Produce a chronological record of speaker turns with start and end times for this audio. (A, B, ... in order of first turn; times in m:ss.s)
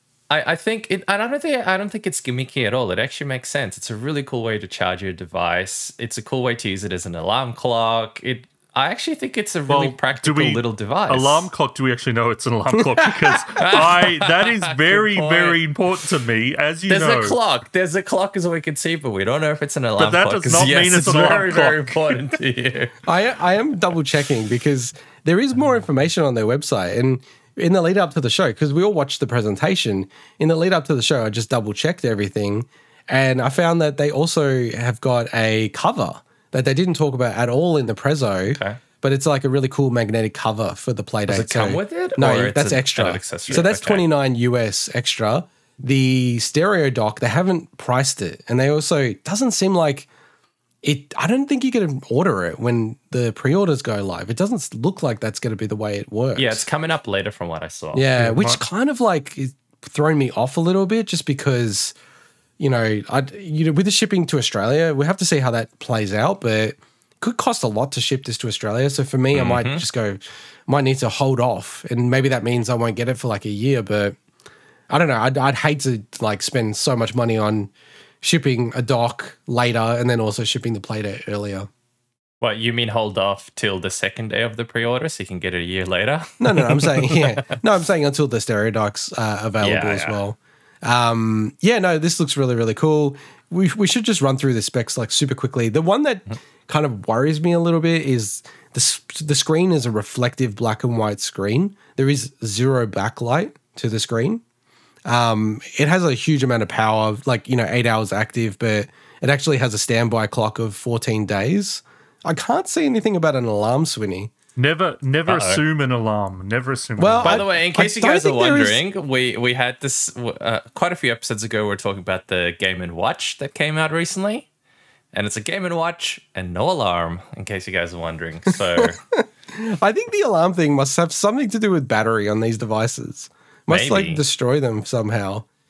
0:00.3-0:11.5 A
0:09.7-0:17.4 B
0:13.5-0:15.6 A
0:16.9-0:23.0 A
0:20.0-0:22.2 B
0:23.0-0:50.1 C
0:41.3-0:44.1 A
0:50.8-0:56.6 C
0:56.4-0:58.1 A
0:57.9-1:01.9 C
0:58.2-0:58.6 B
1:02.6-1:14.2 C
1:09.3-1:09.8 A
1:14.9-1:21.7 C
1:22.4-1:27.4 A
1:26.4-1:44.4 C
1:29.6-1:30.2 A
1:45.0-1:54.3 C
1:54.6-1:57.4 B
1:55.3-1:55.6 A
1:57.0-1:58.8 C
1:57.2-2:04.5 A
2:05.1-2:09.0 A
2:08.8-2:15.4 C
2:13.7-2:14.2 A